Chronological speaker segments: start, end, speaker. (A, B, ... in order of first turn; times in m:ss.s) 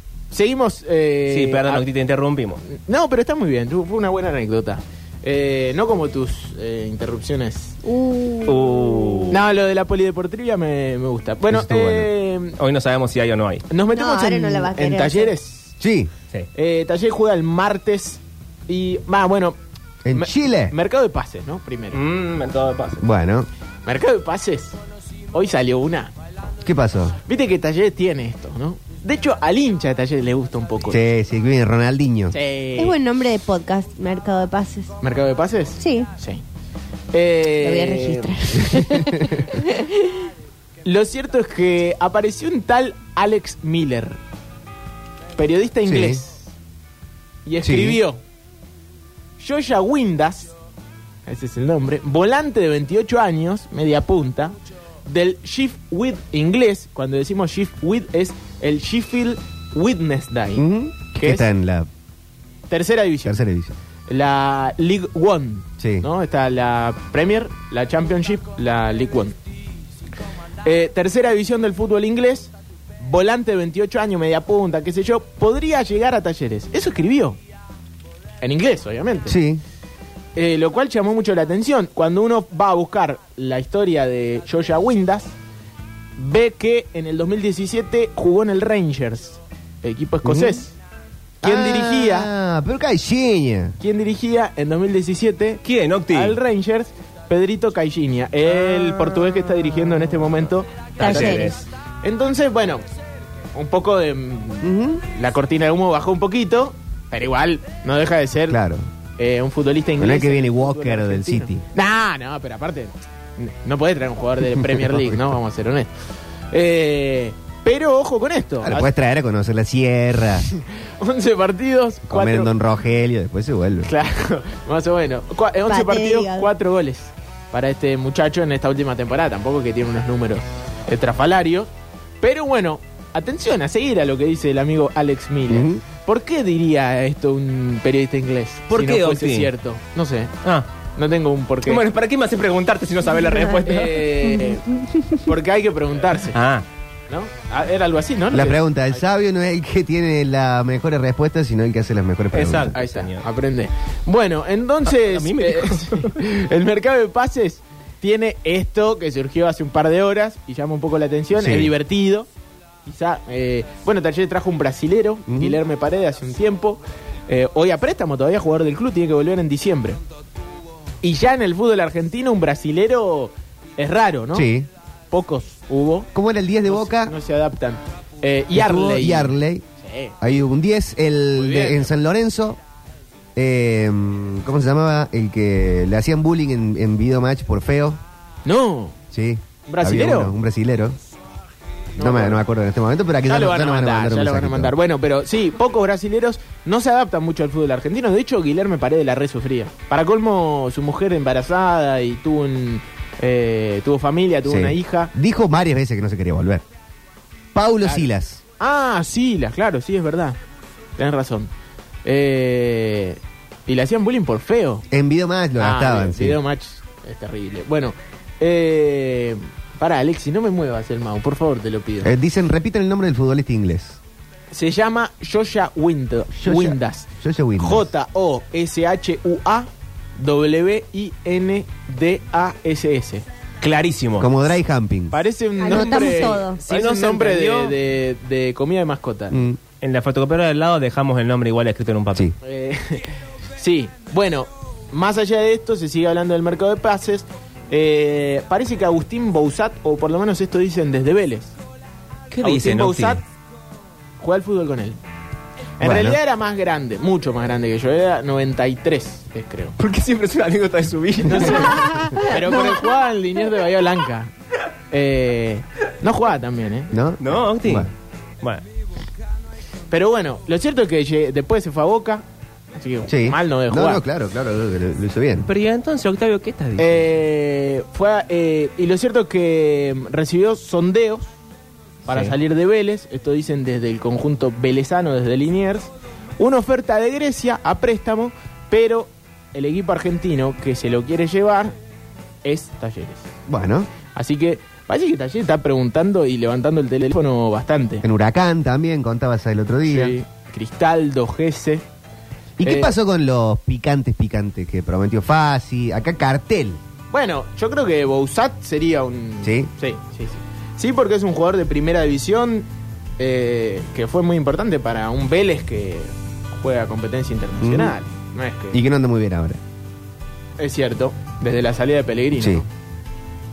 0:00.3-0:01.8 A
0:01.3-0:02.6 B
0:02.7-0:07.8 A
0:07.8-0:09.2 C
0:08.5-0:09.4 B
0:09.3-0:12.6 A
0:11.5-0:12.1 D
0:12.6-0:13.7 B
0:13.7-0:15.8 A
0:13.9-0:15.3 C
0:15.8-0:16.1 D
0:16.5-0:19.6 A
0:20.0-0:20.7 D
0:20.1-0:22.0 A
0:21.9-0:23.0 B
0:23.0-0:23.5 D
0:23.9-0:24.8 A
0:25.3-0:26.1 A
0:26.6-0:27.2 D
0:27.3-0:31.0 A
0:30.9-0:32.4 D
0:32.3-0:33.0 A
0:32.8-0:34.9 C
0:35.0-0:36.4 A
0:35.8-0:36.1 C
0:37.1-0:38.8 A
0:37.5-0:40.1 C
0:40.8-0:44.2 A
0:45.4-0:46.5 A
0:45.9-0:46.2 D
0:47.5-0:48.2 A
0:47.6-0:48.0 D
0:49.4-0:50.5 A
0:51.3-0:54.5 A
0:55.1-1:01.5 A
1:00.6-1:01.9 D
1:02.7-1:03.4 A
1:03.3-1:03.7 D
1:04.1-1:09.4 A
1:05.8-1:06.1 D
1:10.6-1:17.4 A
1:18.4-1:19.4 A
1:19.3-1:19.6 D
1:20.4-1:25.3 A
1:26.2-1:30.8 A
1:30.2-1:30.6 D
1:31.4-1:32.3 A
1:31.4-1:33.8 D
1:33.8-1:42.8 A
1:35.6-1:36.4 B
1:41.0-1:41.5 C
1:41.0-1:41.6 B
1:43.6-1:48.6 A
1:44.6-1:45.0 D
1:48.5-1:48.9 D
1:49.2-1:55.9 A
1:50.0-1:51.6 D
1:54.7-1:55.1 D
1:56.5-1:58.9 A
1:58.6-2:00.5 D
2:00.5-2:02.5 A
2:02.1-2:03.9 D
2:03.8-2:11.7 A
2:05.7-2:06.5 C
2:12.2-2:20.4 A
2:15.5-2:15.8 D
2:18.7-2:19.5 B
2:21.0-2:21.8 A
2:21.7-2:24.2 B
2:23.6-2:24.6 A
2:24.3-2:25.2 C
2:25.2-2:26.4 A
2:26.3-2:26.6 B
2:27.1-2:29.0 A
2:28.3-2:32.8 D
2:32.3-2:33.2 B
2:32.8-2:42.3 A
2:35.0-2:36.2 B
2:41.4-2:41.7 D
2:42.9-2:50.0 A
2:45.3-2:45.6 D
2:51.0-2:54.5 A
2:54.3-2:54.7 D
2:55.1-2:56.1 A
2:56.1-2:57.1 D
2:56.6-3:00.2 A
2:58.5-2:59.6 D
3:00.2-3:02.6 D
3:01.4-3:01.9 A
3:03.4-3:08.0 D
3:08.5-3:09.0 A
3:09.1-3:11.0 D
3:09.7-3:10.4 A
3:12.0-3:12.4 A
3:12.0-3:14.7 D
3:13.2-3:25.1 A
3:24.4-3:26.6 D
3:27.5-3:28.4 D
3:27.8-3:28.1 A
3:28.6-3:30.4 A
3:31.0-3:31.5 A
3:32.0-3:34.8 A
3:34.9-3:36.4 D
3:35.6-3:42.1 A
3:42.0-3:44.0 D
3:44.5-3:47.1 A
3:46.4-3:47.9 D
3:47.6-3:53.3 A
3:53.6-3:54.3 B
3:54.2-3:55.2 D
3:55.1-3:59.4 A
3:55.6-3:56.6 C
3:55.8-3:57.7 B
3:59.3-3:59.6 D
3:59.8-4:02.3 B
4:02.4-4:11.5 A
4:12.3-4:13.2 B
4:12.4-4:13.2 A
4:14.2-4:15.0 A
4:15.8-4:19.8 A
4:15.8-4:16.2 D
4:19.8-4:22.7 B
4:21.3-4:24.3 A
4:24.9-4:26.9 A
4:26.9-4:27.9 D
4:27.2-4:27.9 B
4:29.9-4:32.2 A
4:32.8-4:34.0 A
4:33.1-4:35.5 D
4:35.4-4:37.1 B
4:36.8-4:41.3 A
4:42.1-4:51.8 A
4:52.4-4:53.3 A
4:53.5-4:53.9 D
4:54.2-4:58.0 A
4:58.0-5:00.2 D
4:59.9-5:01.8 A
5:02.6-5:06.8 D
5:02.6-5:02.9 A
5:07.1-5:12.7 A
5:09.4-5:09.7 D
5:13.2-5:18.8 A
5:17.6-5:18.0 D
5:18.7-5:19.6 D
5:20.6-5:22.7 A
5:22.4-5:22.6 D